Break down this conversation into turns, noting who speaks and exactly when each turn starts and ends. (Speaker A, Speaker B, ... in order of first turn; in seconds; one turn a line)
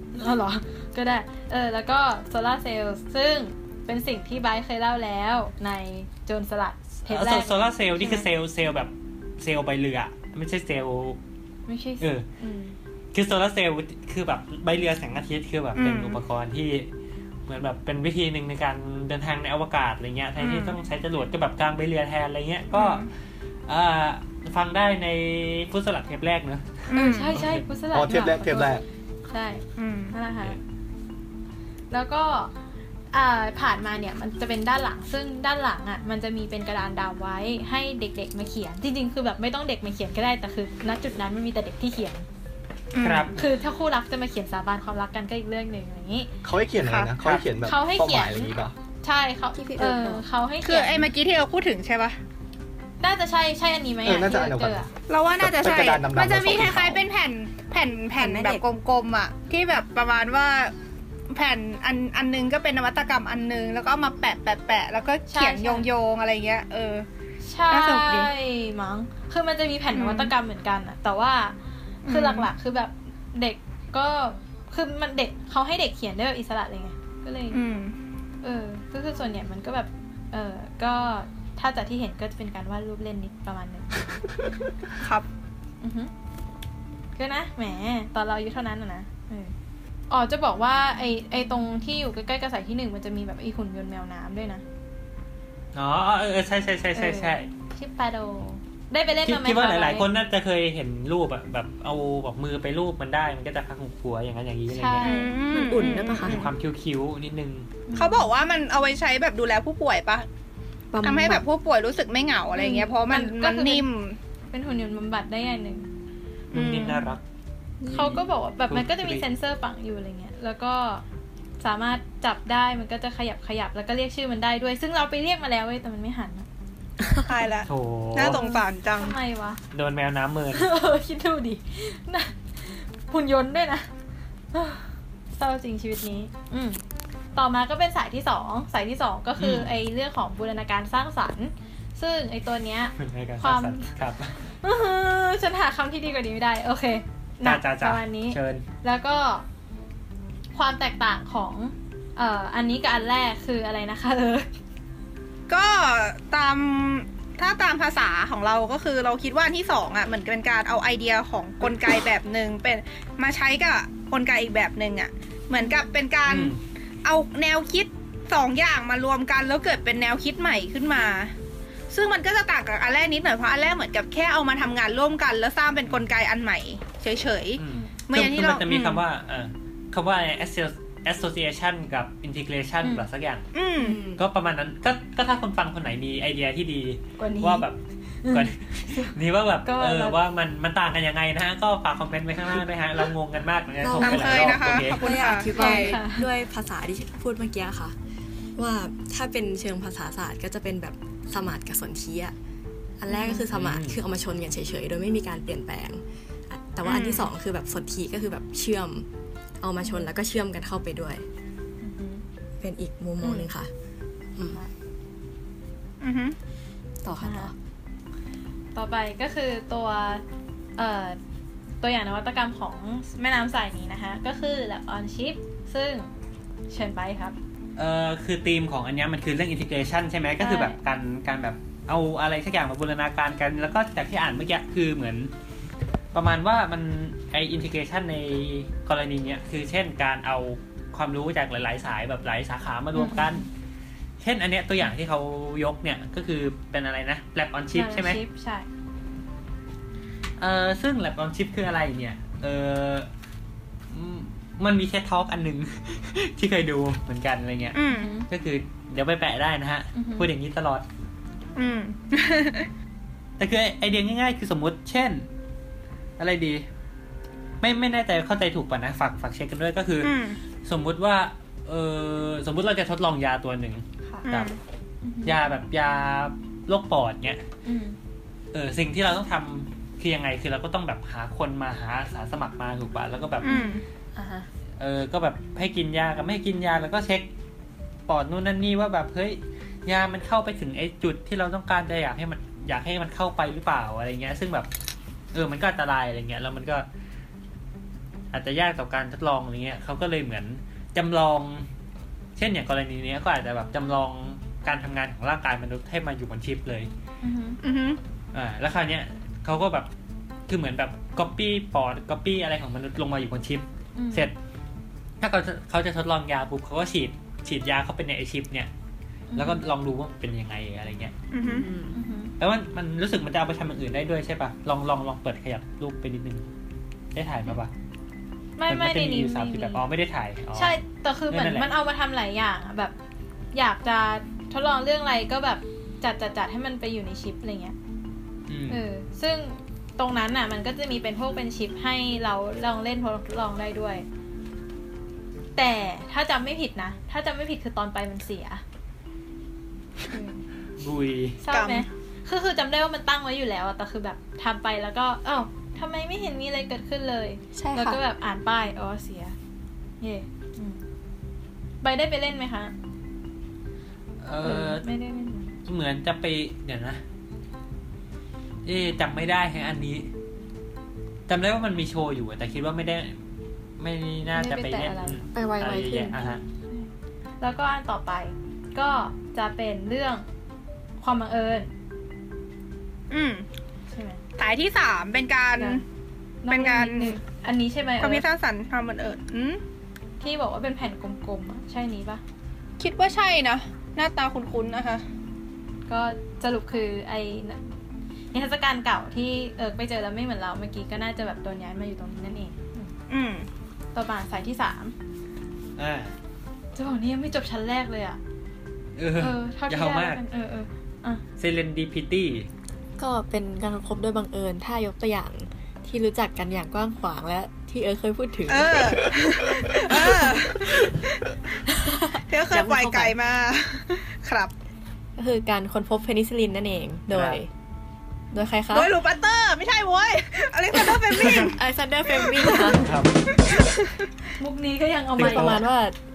Speaker A: 0.1-8.3
Speaker B: 7.1-11.2
Speaker A: 11.7-12.8
Speaker B: 13.1-16.9
Speaker C: 15.8-16.2
Speaker B: 17.5-23.1
Speaker C: 20.4-20.8
Speaker C: 22.7-23.1
Speaker B: 23.7-27.6
Speaker C: 26.9-27.4
Speaker A: 26.9-30.6
Speaker D: 27.9-28.8
Speaker C: 29.8-30.1
Speaker A: 31.9-32.5
Speaker A: 33.1-42.3
Speaker C: 42.9-43.3
Speaker B: 43.0-43.4
Speaker A: 43.4-46.3
Speaker D: 46.4-48.8
Speaker C: 46.8-47.1
Speaker A: 47.6-51.1
Speaker E: 49.5-50.3
Speaker C: 50.6-52.2
Speaker A: 53.0-54.9
Speaker D: 54.0-57.0
Speaker C: 55.1-60.7
Speaker E: 58.2-58.6
Speaker C: 61.3-67.1
Speaker A: 65.3-65.9
Speaker A: 67.4-71.6
Speaker C: 67.7-68.3
Speaker C: 69.9-70.3
Speaker C: 72.0-72.5
Speaker A: 72.1-77.6
Speaker C: 77.5-78.0
Speaker A: 78.4-84.2
Speaker C: 85.0-85.3
Speaker A: 85.8-86.1
Speaker A: 87.2-89.5
Speaker A: 90.1-94.6
Speaker B: 95.8-97.5
Speaker A: 97.0-100.1
Speaker B: 99.2-105.1
Speaker A: 104.7-105.4
Speaker C: 105.0-106.5
Speaker E: 105.5-106.4
Speaker B: 106.2-107.7
Speaker A: 107.9-108.3
Speaker C: 107.9-110.3
Speaker E: 110.9-111.4
Speaker C: 111.0-114.2
Speaker A: 112.5-113.8
Speaker A: 114.5-115.9
Speaker B: 116.5-117.2
Speaker C: 116.5-117.1
Speaker A: 117.9-121.0
Speaker B: 117.9-119.2
Speaker A: 121.6-126.5
Speaker C: 127.3-129.2
Speaker B: 127.7-128.4
Speaker A: 128.3-129.6
Speaker B: 129.7-130.7
Speaker A: 130.5-133.9
Speaker A: 134.5-136.8
Speaker A: 137.3-143.9
Speaker B: 139.4-139.7
Speaker B: 143.0-144.3
Speaker A: 144.6-149.4
Speaker B: 147.4-148.6
Speaker A: 150.5-154.5
Speaker C: 155.5-171.3
Speaker B: 166.3-166.6
Speaker C: 171.9-179.0
Speaker B: 177.6-183.5
Speaker C: 183.5-183.9
Speaker E: 183.8-184.2
Speaker B: 184.2-195.3
Speaker A: 187.2-187.7
Speaker A: 188.2-189.1
Speaker A: 189.7-190.2
Speaker E: 193.8-197.9
Speaker C: 194.0-196.0
Speaker A: 195.5-196.3
Speaker E: 198.6-202.3
Speaker E: 203.0-209.1
Speaker A: 203.1-203.5
Speaker B: 203.5-204.0
Speaker C: 206.8-207.3
Speaker E: 209.6-211.2
Speaker A: 209.8-210.1
Speaker A: 211.8-212.2
Speaker E: 212.6-213.7
Speaker A: 213.2-213.5
Speaker C: 216.0-216.4
Speaker E: 217.0-217.5
Speaker A: 217.2-217.5
Speaker A: 218.7-220.2
Speaker A: 220.8-221.2
Speaker A: 221.8-226.1
Speaker A: 226.7-227.3
Speaker B: 227.8-235.3
Speaker A: 230.4-230.8
Speaker B: 236.1-243.5
Speaker A: 242.9-243.5
Speaker B: 244.2-248.2
Speaker A: 247.7-248.7
Speaker B: 250.4-253.1
Speaker B: 253.9-260.9
Speaker C: 257.7-258.1
Speaker A: 257.9-258.3
Speaker A: 259.9-260.3
Speaker C: 261.6-262.7
Speaker B: 263.4-265.3
Speaker B: 266.2-266.6
Speaker B: 267.6-274.6
Speaker C: 270.0-270.4
Speaker C: 274.3-274.6
Speaker A: 275.0-275.4
Speaker B: 275.2-277.4
Speaker A: 277.6-278.0
Speaker B: 278.5-283.6
Speaker A: 283.4-284.5
Speaker C: 283.4-283.9
Speaker B: 284.8-287.3
Speaker B: 288.1-294.7
Speaker B: 295.3-296.9
Speaker B: 298.3-301.7
Speaker B: 302.4-306.9
Speaker A: 307.2-307.6
Speaker C: 307.6-308.0
Speaker B: 308.3-309.9
Speaker B: 310.5-314.4
Speaker A: 314.0-314.3
Speaker B: 315.2-318.7
Speaker A: 319.3-319.6
Speaker B: 319.3-321.1
Speaker C: 321.3-321.7
Speaker E: 321.4-322.0
Speaker A: 321.9-322.3
Speaker B: 322.4-326.5
Speaker B: 327.1-327.7
Speaker A: 328.6-329.8
Speaker B: 328.7-330.8
Speaker A: 330.6-332.9
Speaker B: 331.3-331.7
Speaker A: 333.5-337.8
Speaker B: 338.5-338.8
Speaker A: 338.7-344.1
Speaker A: 345.6-348.6
Speaker A: 350.1-350.4
Speaker B: 350.8-351.4
Speaker A: 351.4-359.4
Speaker C: 351.5-351.9
Speaker E: 357.6-358.0
Speaker A: 360.0-360.8
Speaker A: 361.8-362.7
Speaker B: 364.2-364.9
Speaker A: 364.4-365.6
Speaker B: 365.7-367.0
Speaker B: 368.6-370.1
Speaker B: 371.3-373.1
Speaker B: 373.8-376.4
Speaker A: 374.3-375.2
Speaker E: 375.3-376.4
Speaker A: 376.7-380.2
Speaker A: 381.0-381.7
Speaker C: 383.1-383.5
Speaker A: 383.9-384.2
Speaker C: 384.4-385.8
Speaker A: 385.6-385.8
Speaker A: 386.4-388.2
Speaker C: 386.5-387.2
Speaker C: 388.0-389.6
Speaker A: 390.2-392.2
Speaker C: 392.8-395.0
Speaker A: 395.9-397.6
Speaker A: 398.3-402.9
Speaker C: 403.1-403.5
Speaker A: 403.9-404.9
Speaker B: 405.8-406.1
Speaker A: 406.8-408.2
Speaker B: 409.0-410.2
Speaker A: 409.2-411.2
Speaker B: 411.4-412.5
Speaker E: 413.0-420.4
Speaker C: 418.5-421.2
Speaker E: 421.7-423.2
Speaker C: 422.3-424.5
Speaker E: 425.2-427.5
Speaker B: 427.1-427.4
Speaker E: 428.3-429.0
Speaker C: 428.7-431.6
Speaker E: 430.9-432.9
Speaker C: 432.2-432.8
Speaker B: 432.8-433.2
Speaker C: 433.3-434.0
Speaker A: 434.4-435.6
Speaker B: 435.2-435.6
Speaker E: 435.2-435.9